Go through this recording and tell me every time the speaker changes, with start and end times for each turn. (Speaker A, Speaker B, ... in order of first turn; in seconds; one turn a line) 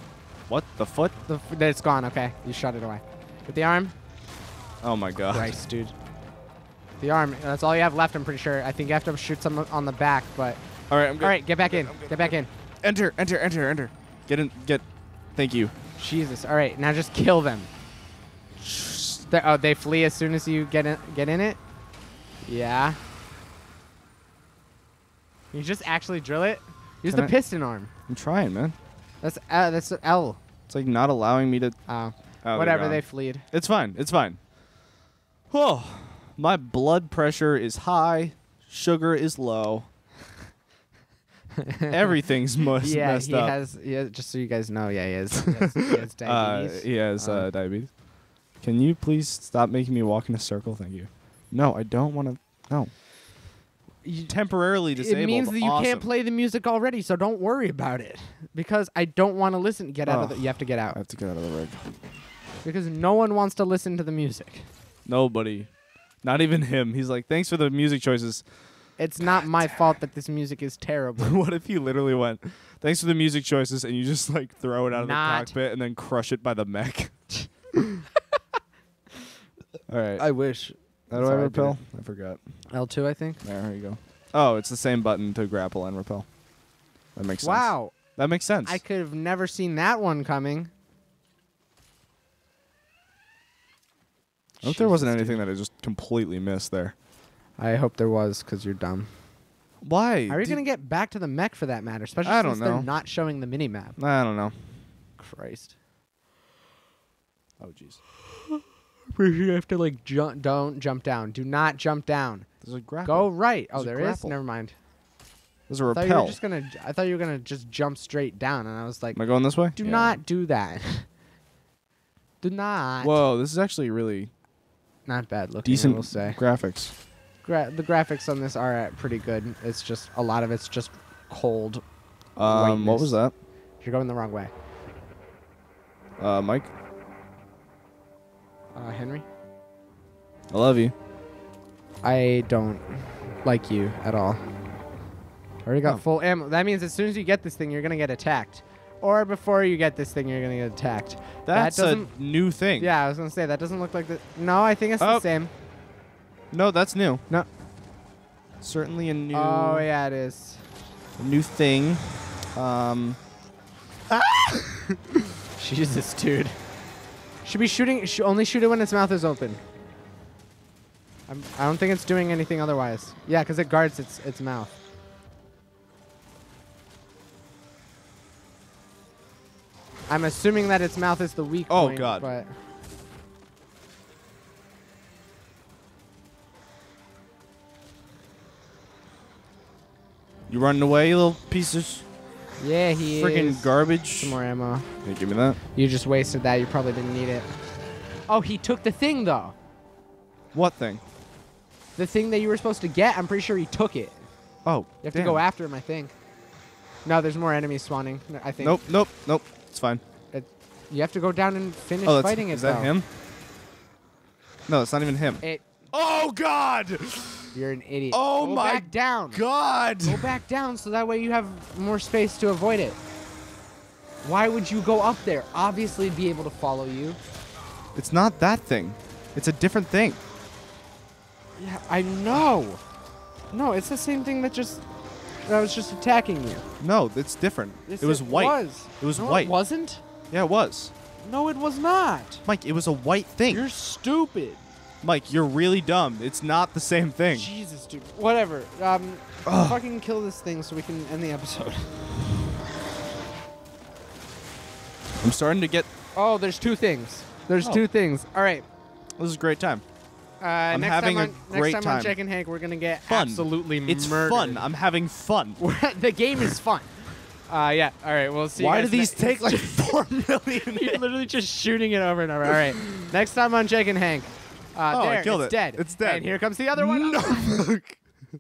Speaker A: 0.5-1.1
Speaker B: 1.3-4.0
Speaker A: 4.8-5.5
Speaker B: 5.3-5.9
Speaker B: 7.0-10.6
Speaker A: 10.9-15.7
Speaker B: 11.2-12.5
Speaker B: 16.0-17.7
Speaker A: 18.6-19.2
Speaker B: 19.3-21.6
Speaker B: 22.4-23.0
Speaker B: 25.5-27.9
Speaker A: 27.1-27.3
Speaker A: 28.1-28.8
Speaker B: 29.2-30.4
Speaker A: 30.7-31.8
Speaker B: 31.9-33.5
Speaker A: 32.4-34.4
Speaker A: 35.5-39.9
Speaker B: 41.6-42.0
Speaker A: 41.9-43.5
Speaker B: 42.8-47.5
Speaker A: 45.5-47.9
Speaker A: 48.6-52.9
Speaker B: 54.0-54.4
Speaker A: 54.3-56.1
Speaker B: 54.9-61.0
Speaker A: 60.1-61.9
Speaker B: 62.6-64.7
Speaker A: 65.1-65.7
Speaker A: 66.2-68.5
Speaker B: 69.0-71.4
Speaker A: 69.2-69.9
Speaker A: 71.2-77.2
Speaker B: 74.9-75.5
Speaker A: 79.9-80.2
Speaker B: 80.2-81.8
Speaker A: 81.1-82.4
Speaker B: 82.7-83.4
Speaker A: 83.4-86.3
Speaker A: 87.2-88.8
Speaker B: 87.4-88.0
Speaker B: 88.6-90.7
Speaker B: 94.6-95.4
Speaker A: 94.6-96.9
Speaker B: 97.6-99.1
Speaker A: 99.8-100.6
Speaker B: 100.3-104.0
Speaker A: 102.2-102.9
Speaker A: 104.0-104.5
Speaker B: 105.2-105.7
Speaker A: 107.6-108.0
Speaker B: 109.1-112.5
Speaker A: 112.6-114.3
Speaker B: 113.0-114.8
Speaker A: 115.7-116.4
Speaker B: 115.9-121.1
Speaker A: 119.1-120.2
Speaker B: 122.4-123.2
Speaker A: 123.0-124.3
Speaker B: 125.1-126.4
Speaker A: 125.7-126.9
Speaker B: 127.4-131.8
Speaker A: 132.4-133.3
Speaker B: 132.4-133.2
Speaker B: 133.8-134.5
Speaker A: 136.2-136.7
Speaker B: 138.8-139.2
Speaker A: 140.5-140.9
Speaker B: 142.0-144.4
Speaker B: 145.7-152.2
Speaker A: 151.5-152.9
Speaker B: 152.8-155.5
Speaker A: 155.0-155.3
Speaker A: 156.5-157.2
Speaker A: 158.6-159.9
Speaker B: 159.3-160.7
Speaker A: 161.2-163.2
Speaker B: 165.6-166.6
Speaker B: 167.4-169.6
Speaker B: 171.3-174.7
Speaker B: 180.1-182.5
Speaker A: 181.7-182.3
Speaker A: 190.5-192.1
Speaker B: 192.6-194.9
Speaker A: 193.2-194.4
Speaker A: 195.0-195.6
Speaker B: 195.8-197.5
Speaker B: 198.3-199.6
Speaker A: 200.5-201.0
Speaker B: 202.0-204.2
Speaker A: 204.7-205.4
Speaker B: 205.0-206.1
Speaker B: 207.1-208.8
Speaker A: 208.6-210.0
Speaker B: 210.3-212.9
Speaker A: 212.1-213.1
Speaker A: 214.7-217.6
Speaker B: 217.5-219.4
Speaker A: 218.1-220.4
Speaker B: 220.0-223.0
Speaker B: 224.2-227.2
Speaker A: 227.9-230.2
Speaker B: 231.6-232.8
Speaker B: 233.5-234.8
Speaker B: 235.4-236.7
Speaker A: 236.8-239.5
Speaker B: 237.9-240.0
Speaker A: 240.3-240.9
Speaker B: 241.2-242.4
Speaker A: 242.4-243.7
Speaker B: 243.5-244.6
Speaker A: 245.0-247.5
Speaker B: 247.3-252.1
Speaker A: 249.4-249.8
Speaker A: 255.2-255.9
Speaker B: 256.1-258.6
Speaker A: 259.2-259.8
Speaker B: 260.4-264.7
Speaker A: 260.7-262.2
Speaker A: 263.1-265.6
Speaker B: 265.6-269.9
Speaker A: 268.6-271.0
Speaker B: 270.6-277.5
Speaker A: 272.5-273.1
Speaker A: 274.9-278.0